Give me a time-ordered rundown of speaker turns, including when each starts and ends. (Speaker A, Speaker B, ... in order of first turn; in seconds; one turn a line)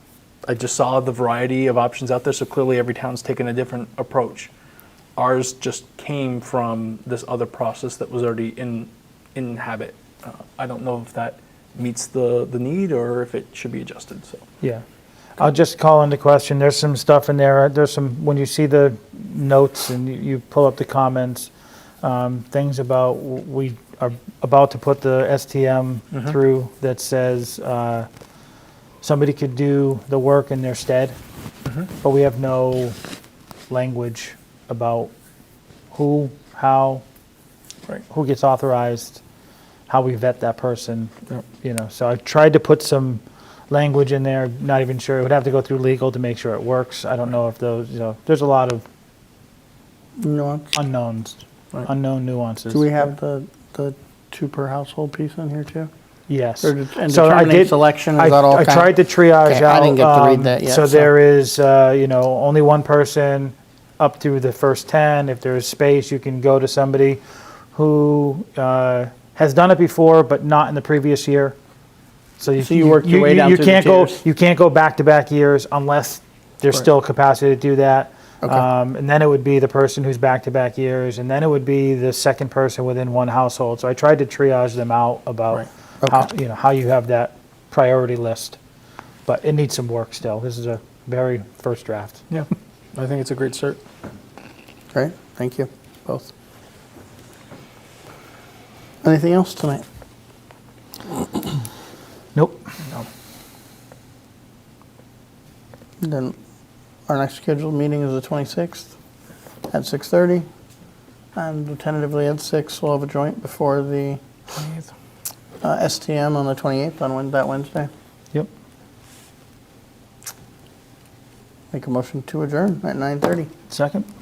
Speaker A: 0.5-4.5
Speaker A: 5.2-14.4
Speaker B: 15.4-28.1
Speaker B: 29.0-31.1
Speaker B: 32.0-33.0
Speaker B: 33.7-35.1
Speaker B: 35.9-37.0
Speaker B: 38.0-39.2
Speaker B: 39.9-48.8
Speaker C: 50.2-50.7
Speaker B: 50.7-52.9
Speaker C: 52.7-55.9
Speaker B: 56.3-71.5
Speaker C: 56.6-58.9
Speaker C: 59.4-61.1
Speaker B: 72.4-88.6
Speaker C: 72.6-74.2
Speaker C: 86.0-86.3
Speaker B: 89.2-92.2
Speaker A: 92.3-93.8
Speaker C: 94.9-96.3
Speaker C: 99.0-99.8
Speaker B: 102.3-102.7
Speaker C: 106.0-106.3
Speaker C: 107.0-108.9
Speaker C: 109.7-110.5
Speaker C: 111.3-114.2
Speaker C: 115.6-117.9
Speaker C: 121.7-123.5
Speaker B: 123.7-124.1